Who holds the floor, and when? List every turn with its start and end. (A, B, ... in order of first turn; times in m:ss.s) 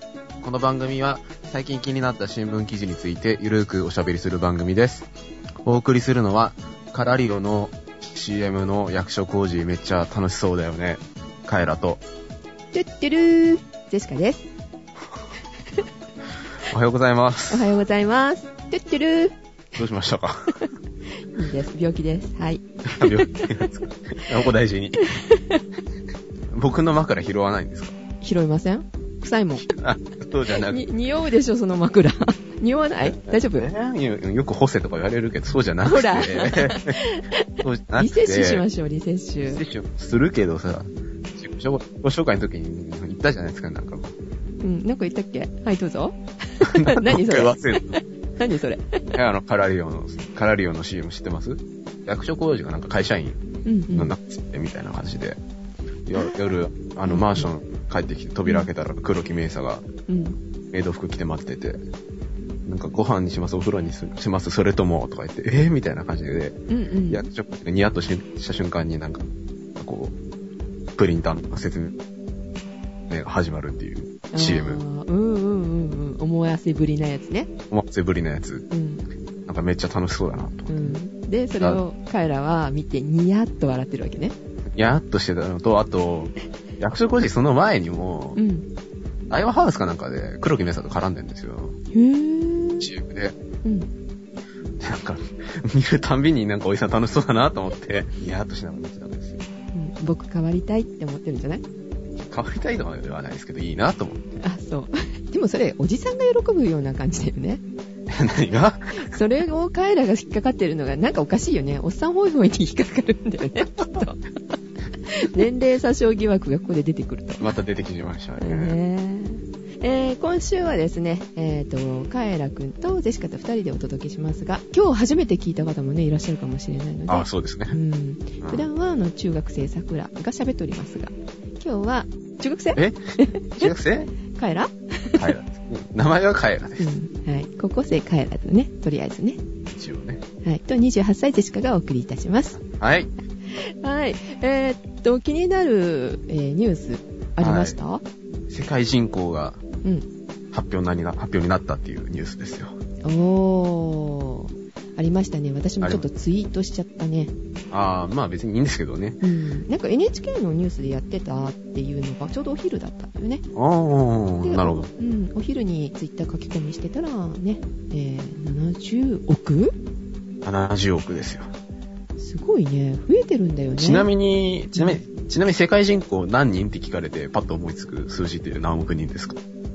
0:00.4-0:05.1 A
0:05.6-0:12.0 A
0:12.7-0:14.5 B
0:16.6-0:17.7 A
0:17.5-0:19.4 B
0:19.8-0:20.6 A
0:21.3-0:23.6 B
0:22.8-0:25.0 A
0:25.0-0:25.6 B
0:26.5-0:27.9 A
0:28.2-0:29.6 B
0:29.6-0:30.8 A
0:30.5-0:33.7 B
0:33.0-0:37.0 A
0:35.8-0:39.6 B
0:37.6-0:38.6 A
0:39.4-0:44.3 A
0:44.6-0:49.1 B
0:46.6-0:48.0 A
0:49.1-0:53.4 A
0:53.6-0:54.1 B
0:53.9-0:55.4 A
0:56.0-0:59.9 A
0:57.1-0:57.5 B
1:00.1-1:00.4 B
1:00.7-1:01.8 A
1:02.6-1:09.2 A
1:06.7-1:07.3 B
1:09.8-1:10.1 A
1:11.0-1:11.9 A
1:13.1-1:14.8 A
1:14.3-1:17.5 B
1:17.7-1:18.6 A
1:18.7-1:19.0 B
1:19.5-1:21.0 A
1:20.7-1:24.3 B
1:24.7-1:28.4 A
1:28.4-1:28.6 B
1:29.3-1:31.8 A
1:31.9-1:32.9 B
1:32.8-1:33.3 A
1:33.6-1:33.9 B
1:34.8-1:39.4 A
1:39.7-1:41.6 B
1:42.2-1:44.3 A
1:44.4-1:47.6 B
1:48.1-1:49.1 A
1:49.0-1:54.2 B
1:55.0-1:57.5 B
1:57.4-1:58.8 A
1:58.4-2:15.2 B
2:07.1-2:07.8 A
2:08.4-2:08.7 A
2:12.8-2:14.1 A
2:15.1-2:16.9 A
2:16.8-2:19.4 B
2:19.7-2:20.2 A
2:20.4-2:22.6 B
2:22.6-2:23.1 A
2:23.5-2:28.0 B
2:27.4-2:27.8 A
2:28.5-2:29.6 A
2:30.5-2:32.7 A
2:33.0-2:37.3 B
2:37.7-2:39.2 A
2:39.2-2:43.4 B
2:43.5-2:44.9 A
2:44.4-2:49.7 B
2:50.4-2:51.5 A
2:52.2-2:54.1 B
2:53.8-2:59.4 A
2:54.7-2:55.0 B